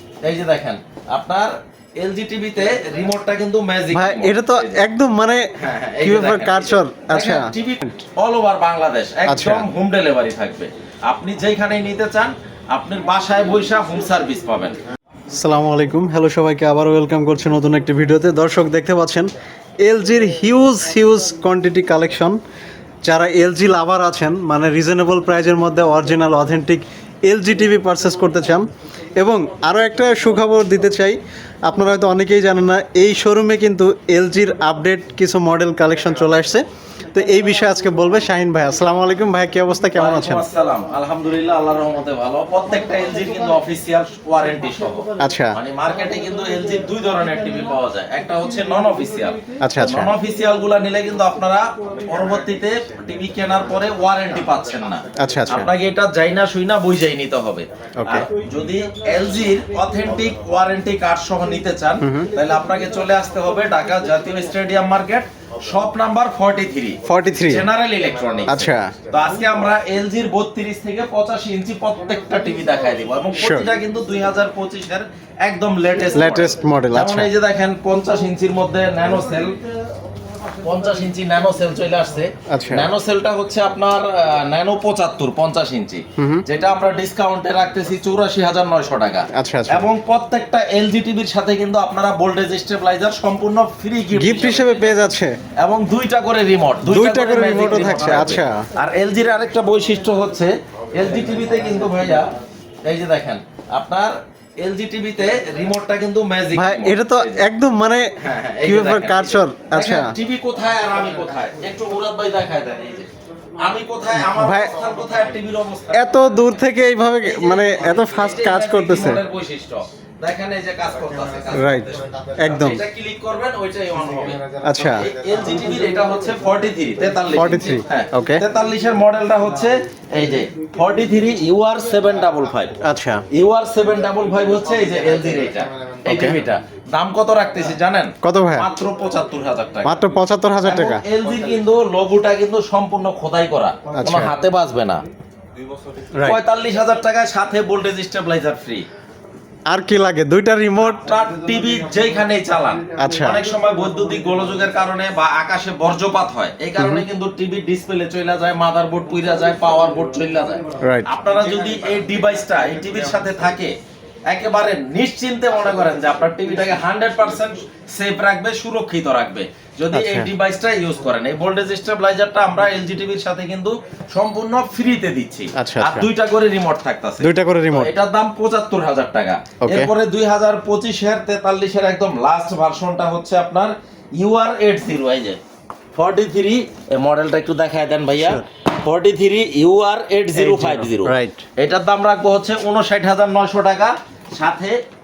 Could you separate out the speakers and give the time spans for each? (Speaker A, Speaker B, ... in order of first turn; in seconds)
Speaker A: 0.2-4.8, 5.6-14.8, 40.0-79.6, 80.6-95.0, 95.6-102.3, 102.8-107.5, 108.2-116.6, 117.2-132.8, 133.3-145.1, 146.2-148.8, 150.8-163.7, 164.3-185.4, 185.9-194.8
Speaker B: 3.9-5.5, 6.0-8.0, 9.3-9.7, 15.3-19.3, 19.8-22.4, 23.0-40.4, 45.2-45.6, 49.6-50.1, 55.2-55.7, 58.0-58.3, 62.0-62.3, 67.1-67.7, 68.5-68.9, 73.4-73.7, 76.1-77.3, 82.5-82.9, 86.2-86.4, 89.3-89.9, 94.1-95.4, 96.8-98.7, 106.5-110.1, 114.2-114.8, 115.9-119.2, 121.5-122.8, 124.6-125.1, 127.3-128.4, 132.8-133.2, 136.1-136.4, 138.2-138.7, 139.8-141.0, 143.9-144.3, 146.1-146.4, 149.7-151.0, 152.9-153.4, 156.8-157.0, 160.8-161.1, 169.9-170.3, 175.6-176.1, 177.2-177.9, 179.6-179.9, 190.3-191.4